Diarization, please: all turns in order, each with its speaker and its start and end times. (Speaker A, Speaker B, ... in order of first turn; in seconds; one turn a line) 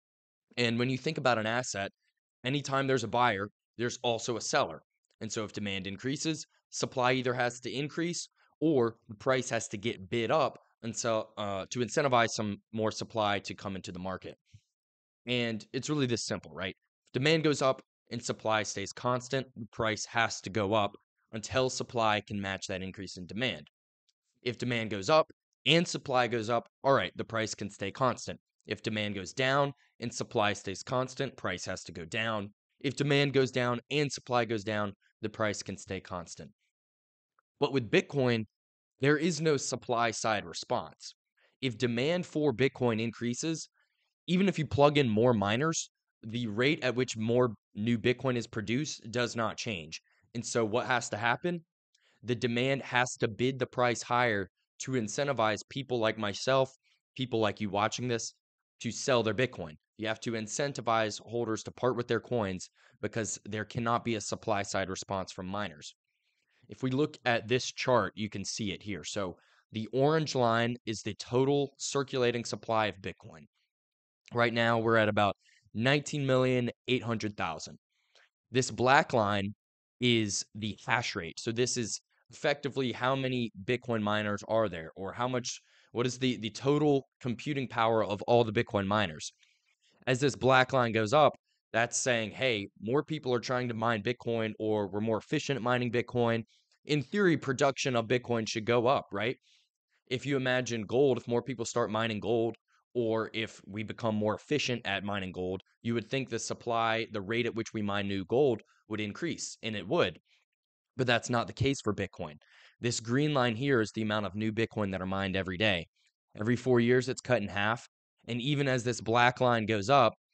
Speaker A: 0.6-1.9
Speaker A: 2.4-14.4
Speaker A: 15.3-23.7
Speaker A: 24.4-36.5
Speaker A: 37.6-38.5
Speaker A: 39.0-43.7
Speaker A: 44.3-51.6
Speaker A: 52.2-65.9
Speaker A: 66.7-73.5
Speaker A: 74.3-77.8
Speaker A: 78.5-89.3
Speaker A: 90.1-99.4
Speaker A: 100.1-110.2
Speaker A: 111.0-120.2